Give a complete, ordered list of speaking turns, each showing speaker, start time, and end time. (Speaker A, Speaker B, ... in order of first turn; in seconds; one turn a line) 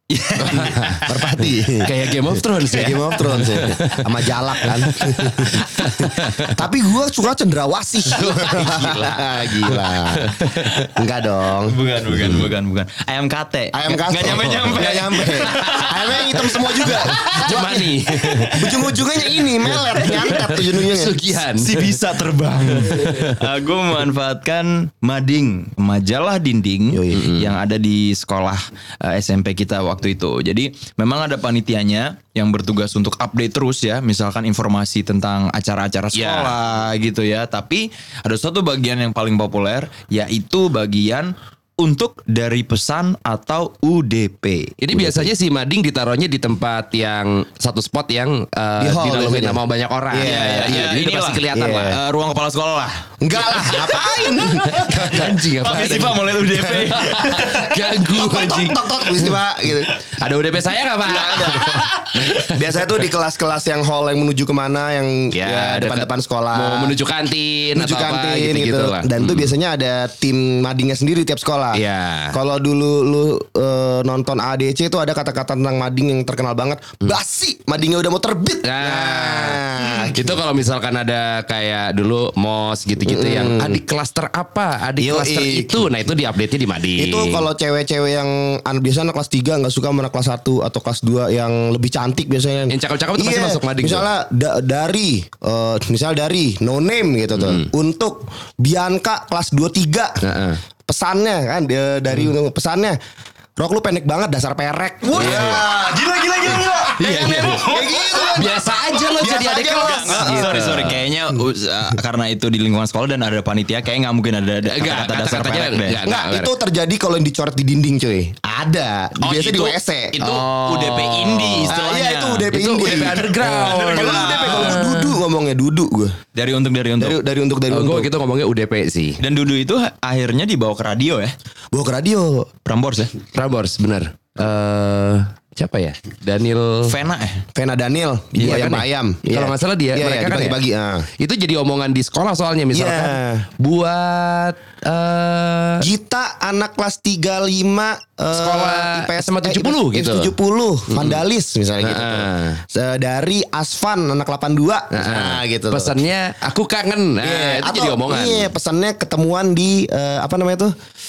Speaker A: 0.1-1.2
Speaker B: 0.4-1.1
Speaker C: 1.1-10.3
Speaker B: 1.8-6.6
Speaker B: 8.1-10.8
Speaker C: 10.9-12.4
Speaker A: 11.7-17.7
Speaker B: 12.2-12.4
Speaker C: 13.7-21.2
Speaker B: 17.2-18.6
Speaker A: 18.3-18.8
Speaker B: 19.8-21.9
Speaker A: 21.5-44.8
Speaker B: 22.8-23.4
Speaker C: 26.9-27.3
Speaker B: 27.1-27.4
Speaker B: 36.1-36.5
Speaker B: 44.8-51.9
Speaker C: 44.9-45.2
Speaker C: 48.8-51.0
Speaker A: 50.2-57.7
Speaker C: 51.5-52.0
Speaker C: 53.2-55.4
Speaker B: 54.7-59.0
Speaker C: 56.9-59.9
Speaker B: 60.0-62.5
Speaker C: 61.0-67.0
Speaker B: 65.3-69.5
Speaker C: 67.7-71.8
Speaker B: 71.7-72.3
Speaker C: 72.3-80.3
Speaker B: 78.6-87.5
Speaker C: 83.0-83.8
Speaker C: 85.0-85.9
Speaker C: 87.0-100.2
Speaker B: 92.7-94.0
Speaker B: 97.4-97.7
Speaker B: 100.2-100.6
Speaker C: 100.9-103.0
Speaker C: 103.6-110.6
Speaker A: 105.1-116.0
Speaker B: 105.2-105.7
Speaker B: 107.0-111.0
Speaker B: 114.6-116.5
Speaker C: 116.0-120.3
Speaker A: 119.2-124.9
Speaker B: 120.2-121.8
Speaker C: 121.7-126.2
Speaker B: 122.5-125.1
Speaker A: 126.3-127.2
Speaker C: 127.0-128.1
Speaker B: 127.7-129.2
Speaker A: 129.2-131.3
Speaker C: 131.7-132.5
Speaker A: 132.7-133.1
Speaker B: 133.3-136.9
Speaker A: 136.8-137.4
Speaker C: 137.5-141.1
Speaker A: 138.4-138.8
Speaker B: 139.2-140.6
Speaker B: 141.2-145.9
Speaker C: 142.7-143.5
Speaker C: 145.8-156.0
Speaker B: 148.3-150.3
Speaker B: 150.9-151.2
Speaker B: 151.8-152.6
Speaker B: 154.9-158.5
Speaker C: 157.2-160.7